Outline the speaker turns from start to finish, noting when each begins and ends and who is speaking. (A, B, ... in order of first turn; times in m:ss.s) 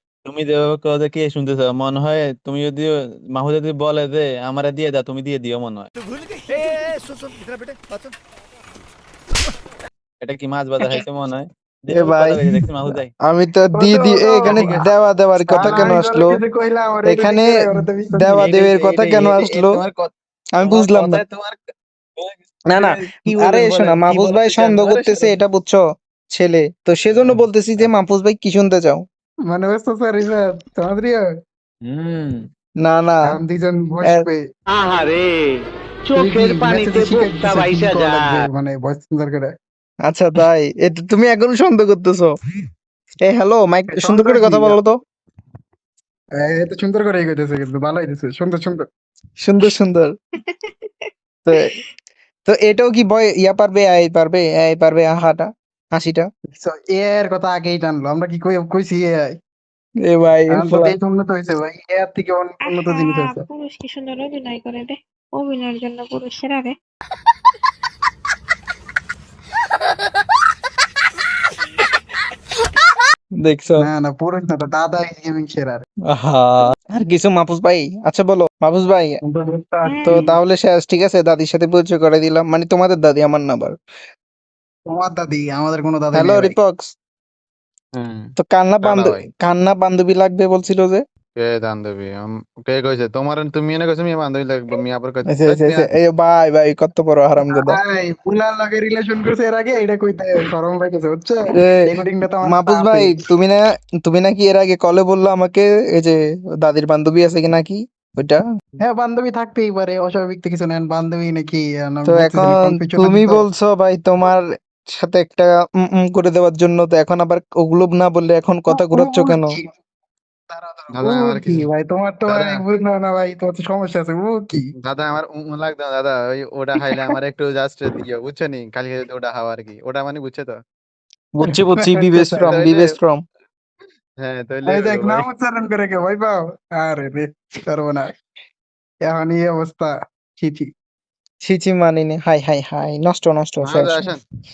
0:00.2-0:05.9 A
0:10.2-0:13.1 A
0:11.9-0:16.4 B
0:13.7-0:14.8 C
0:14.5-0:14.8 A
0:15.4-0:18.4 C
0:17.0-0:19.8 B
0:18.4-0:20.1 A
0:20.6-0:21.2 B
0:20.6-0:23.0 A
0:22.7-0:29.0 B
0:22.9-0:24.1 C
0:24.4-0:25.2 A
0:27.1-0:27.9 A
0:29.5-0:31.2 C
0:31.8-0:32.5 A
0:32.8-0:33.3 B
0:33.3-0:34.4 C
0:34.7-0:38.4 D
0:36.2-0:39.5 C
0:40.1-0:42.4 B
0:43.2-0:45.0 B
0:43.9-0:44.8 C
0:46.4-0:48.9 C
0:49.4-0:50.1 B
0:51.5-0:51.7 B
0:52.5-0:56.3 B
0:56.5-0:59.3 C
1:00.0-1:01.0 B
1:00.5-1:03.4 C
1:02.6-1:06.8 E
1:13.4-1:13.9 B
1:13.8-1:15.8 C
1:16.1-1:19.2 B
1:19.2-1:20.4 C
1:19.8-1:20.2 E
1:20.0-1:23.8 B
1:24.9-1:26.6 C
1:26.1-1:26.9 B
1:27.9-1:29.2 A
1:28.4-1:31.0 B
1:31.4-1:35.9 A
1:35.3-1:37.8 B
1:37.5-1:43.2 C
1:41.5-1:48.4 B
1:48.8-1:53.4 C
1:52.1-1:59.6 B
1:58.7-1:59.7 C
2:00.5-2:04.7 C
2:00.9-2:01.7 A
2:02.3-2:02.6 A
2:04.8-2:10.6 A
2:06.8-2:07.1 C
2:11.4-2:13.2 B
2:11.4-2:12.6 C
2:12.4-2:12.9 A
2:14.2-2:15.3 A
2:14.6-2:18.1 C
2:19.1-2:20.7 C
2:21.4-2:24.1 B
2:23.6-2:24.2 A